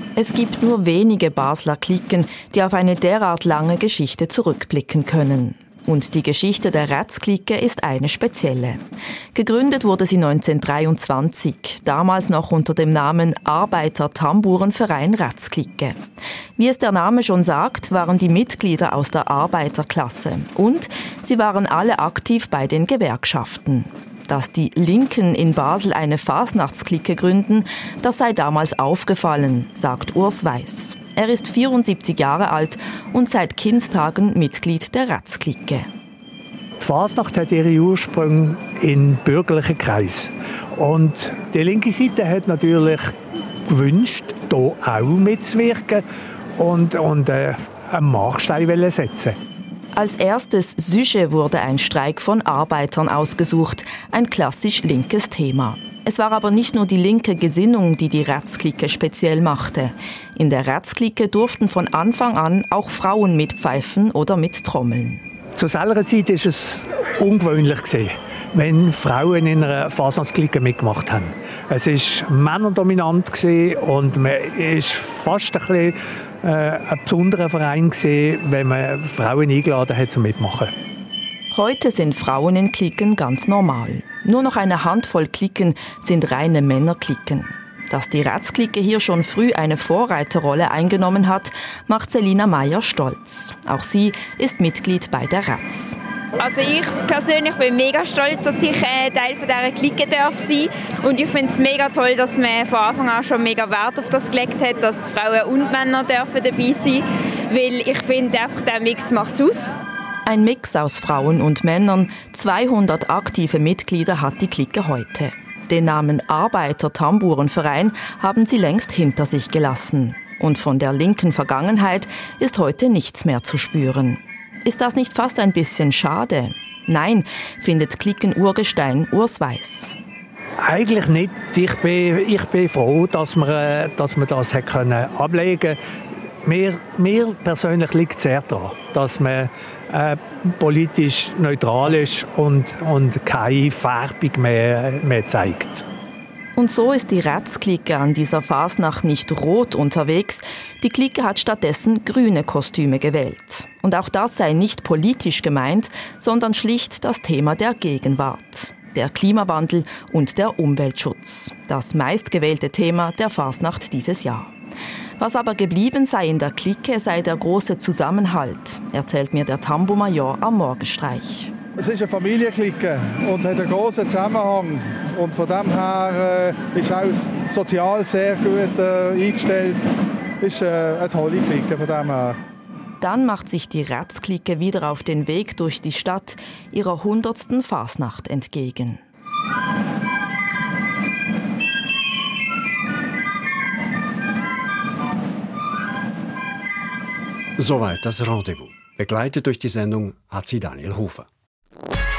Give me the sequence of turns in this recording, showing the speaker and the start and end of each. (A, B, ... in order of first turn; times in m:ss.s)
0:00.2-0:08.8 A
0:09.3-0:16.0 A
0:16.6-0:35.9 A
0:36.8-0:43.1 B
0:43.7-0:46.0 B
0:46.6-0:49.4 B
0:49.9-1:05.2 A
1:05.6-1:20.7 B
1:21.5-1:36.0 A
1:36.4-1:49.8 C
1:50.3-2:10.0 A
2:10.6-2:15.8 B
2:16.4-2:25.8 B
2:26.6-2:44.5 A
2:45.2-2:51.5 A
2:51.8-2:59.9 D
3:00.4-3:02.4 D
3:03.0-3:09.0 A
3:17.6-3:21.3 E